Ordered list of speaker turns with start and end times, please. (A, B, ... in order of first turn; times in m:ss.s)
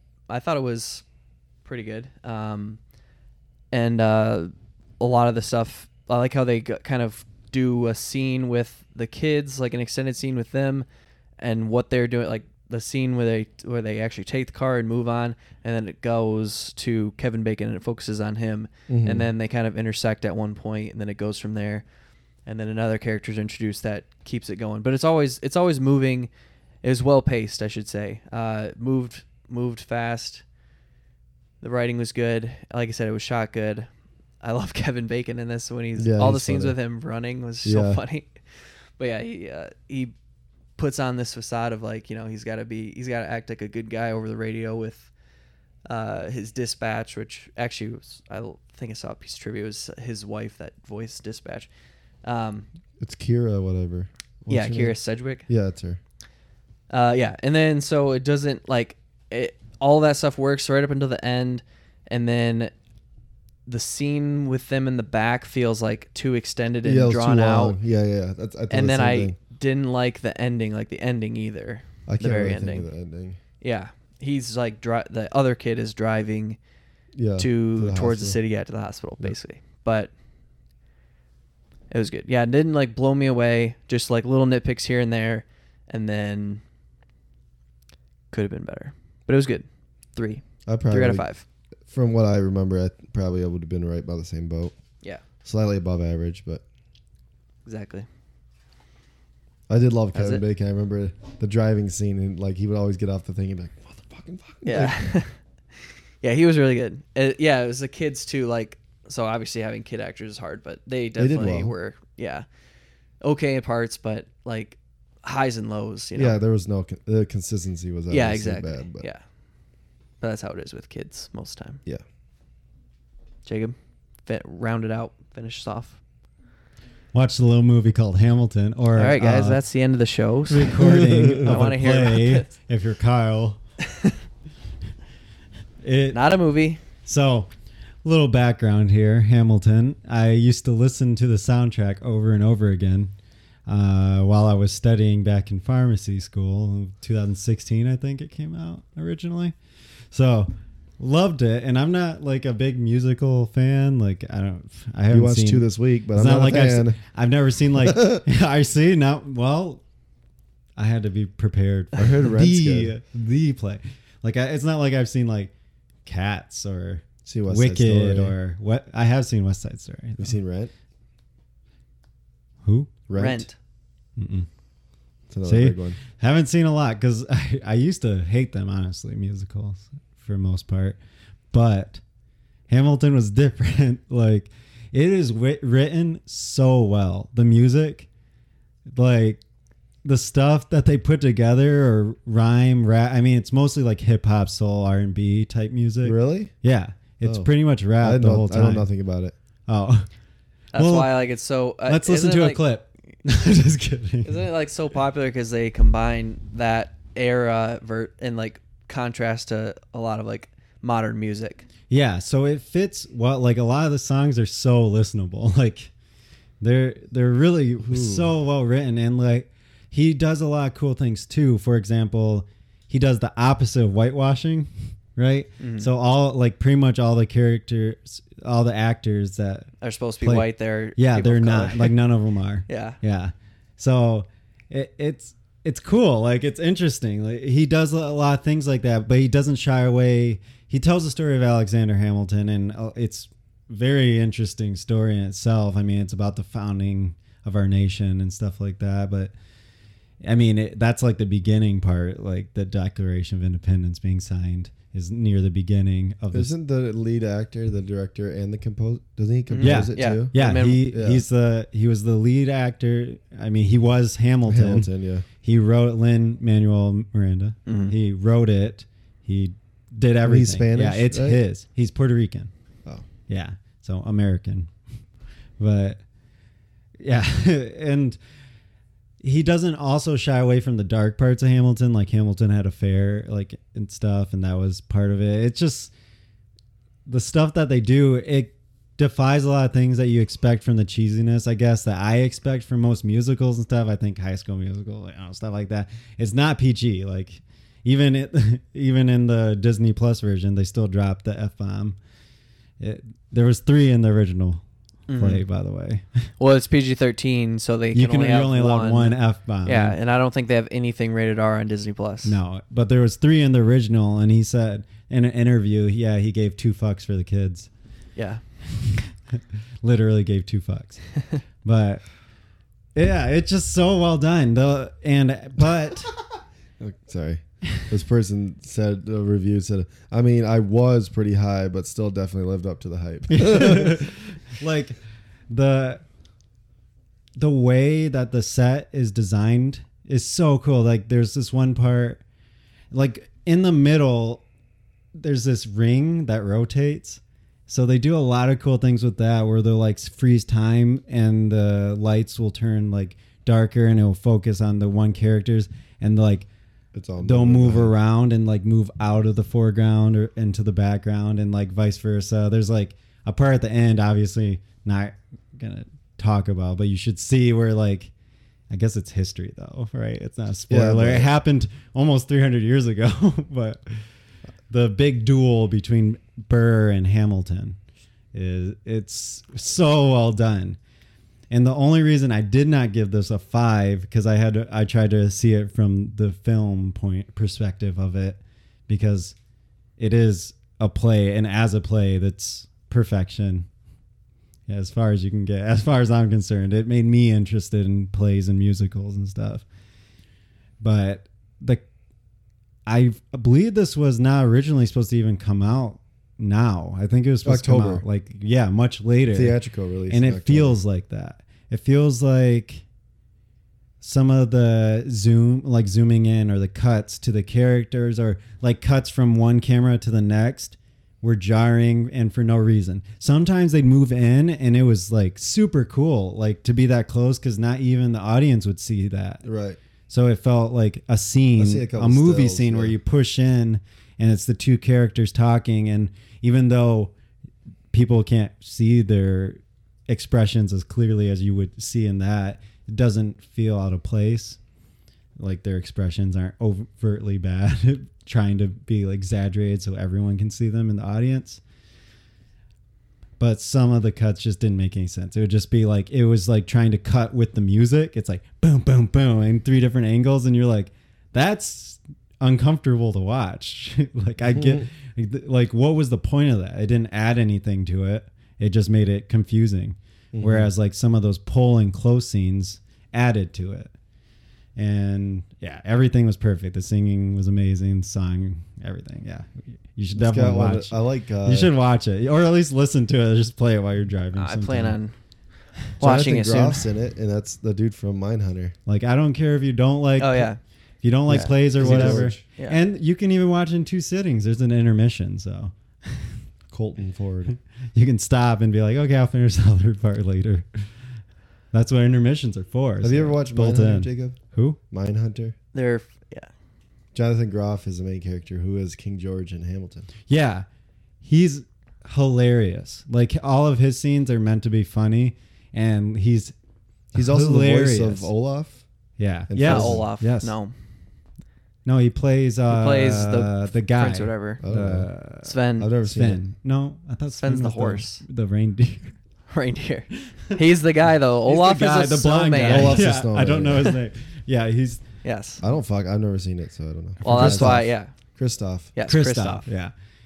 0:00.3-0:01.0 A
0:01.6-0:02.8 A
0:03.7-0:10.8 A
0:11.4-0:21.8 A
0:18.9-0:19.3 B
0:22.4-0:26.3 A
0:26.8-0:30.4 A
0:31.6-0:33.9 A
0:34.4-0:38.4 A
0:36.0-0:36.8 B
0:37.6-0:38.0 B
0:39.0-0:40.1 A
0:40.8-0:45.1 A
0:45.8-0:51.7 A
0:52.2-0:52.7 A
0:53.0-0:56.0 B
0:54.5-0:55.5 A
0:56.9-1:02.7 A
1:03.6-1:07.8 A
1:06.8-1:09.4 B
1:08.7-1:12.9 A
1:12.1-1:13.4 B
1:13.6-1:16.6 A
1:17.2-1:18.4 B
1:17.4-1:20.1 A
1:21.9-1:26.6 A
1:28.3-1:31.4 A
1:30.6-1:31.2 B
1:31.9-1:34.7 B
1:35.4-1:36.6 B
1:37.6-1:38.1 A
1:39.7-1:45.0 B
1:40.1-1:40.4 A
1:44.6-1:45.3 A
1:46.2-1:52.4 A
1:51.2-1:51.7 B
1:53.2-1:56.4 A
1:56.1-1:59.1 B
1:58.1-1:59.2 A
2:00.2-2:01.8 A
2:03.4-2:03.7 A
2:04.2-2:06.0 A
2:07.1-2:09.6 C
2:08.9-2:12.5 A
2:10.5-2:13.6 C
2:10.8-2:11.4 B
2:15.8-2:16.3 C
2:16.1-2:16.8 A
2:17.0-2:17.5 C
2:18.0-2:23.1 C
2:23.7-2:29.5 C
2:30.1-2:39.8 C
2:35.1-2:37.0 B
2:37.8-2:38.2 B
2:40.8-2:45.5 C
2:42.0-2:42.9 B
2:46.0-2:50.4 C
2:47.2-2:48.3 B
2:50.2-2:50.7 B
2:52.6-2:52.9 C
2:53.1-2:53.5 B
2:53.1-2:53.6 A
2:54.2-2:54.5 C
2:55.3-2:56.0 B
2:55.4-3:01.0 C
3:01.5-3:02.0 C
3:02.7-3:08.1 C
3:08.9-3:09.4 C
3:10.0-3:18.8 C
3:16.0-3:16.5 B
3:17.2-3:17.5 B
3:18.0-3:19.4 B
3:19.7-3:20.1 C
3:20.7-3:21.2 C
3:20.7-3:22.6 A
3:21.8-3:24.4 C
3:24.2-3:31.7 A
3:31.9-3:35.9 C
3:36.6-4:09.3 C
3:37.8-3:38.3 B
3:45.6-3:45.9 A
3:49.8-3:51.9 A
3:52.7-3:53.0 A
4:10.2-4:16.5 C
4:16.3-4:20.3 B
4:19.5-4:20.8 A
4:19.6-4:24.9 C
4:20.9-4:21.2 B
4:24.4-4:25.2 B
4:25.4-4:32.5 C
4:27.7-4:27.9 A
4:30.2-4:31.4 B
4:33.3-4:34.7 C
4:35.6-4:36.0 C
4:37.0-4:38.2 C
4:39.2-4:45.9 C
4:47.0-5:02.0 C
5:02.8-5:04.6 C
5:05.1-5:05.4 A
5:05.2-5:06.3 C
5:06.4-5:12.4 A
5:07.9-5:10.0 C
5:12.2-5:17.7 C
5:18.2-5:18.4 A
5:18.8-5:19.0 C
5:19.8-5:22.0 C
5:22.9-5:26.2 C
5:26.8-5:34.1 B
5:33.3-5:35.0 C
5:35.5-5:36.0 C
5:37.4-5:42.2 C
5:42.9-5:44.4 C
5:45.1-5:56.5 C
5:56.9-5:57.9 B
5:57.2-6:08.1 C
6:08.7-6:14.0 C
6:10.7-6:11.3 B
6:14.7-6:17.8 C
6:18.3-6:20.8 C
6:21.5-6:29.3 C
6:30.0-6:33.7 C
6:34.7-6:39.6 C
6:40.8-6:41.8 C
6:42.8-6:49.6 C
6:47.4-6:48.0 B
6:49.3-6:50.8 B
6:50.1-6:52.8 C
6:54.0-7:09.4 C
7:09.4-7:09.8 B
7:10.1-7:17.1 C
7:11.6-7:13.0 B
7:17.9-7:24.6 C
7:25.4-7:31.6 C
7:33.4-7:53.9 C
7:44.5-7:44.8 B
7:50.3-7:50.7 B
7:54.8-8:05.0 C
8:00.2-8:01.7 B
8:04.3-8:05.1 A
8:06.0-8:06.8 A
8:06.0-8:08.7 B
8:08.8-8:10.5 C
8:10.2-8:10.6 A
8:11.0-8:16.4 C
8:11.3-8:12.8 A
8:11.7-8:12.4 B
8:16.7-8:17.6 B
8:17.9-8:20.8 C
8:21.7-8:24.8 C
8:23.0-8:24.4 B
8:24.9-8:25.6 B
8:25.7-8:26.5 A
8:27.1-8:30.1 B
8:30.3-8:30.6 C
8:31.2-8:36.5 C
8:37.1-8:38.3 C
8:37.1-8:38.8 B
8:39.2-8:40.5 C
8:39.5-8:40.0 B
8:39.6-8:40.7 A
8:41.8-8:49.2 C
8:42.7-8:44.6 A
8:44.6-8:45.1 B
8:45.4-8:45.9 A
8:45.8-8:46.4 B
8:47.4-8:48.2 A
8:49.5-8:53.0 A
8:51.5-8:55.0 C
8:52.6-8:53.9 B
8:55.2-8:55.6 A
8:55.6-8:58.9 B
8:57.2-8:57.8 C
8:57.2-8:58.1 A
8:58.9-8:59.7 A
8:59.0-8:59.9 C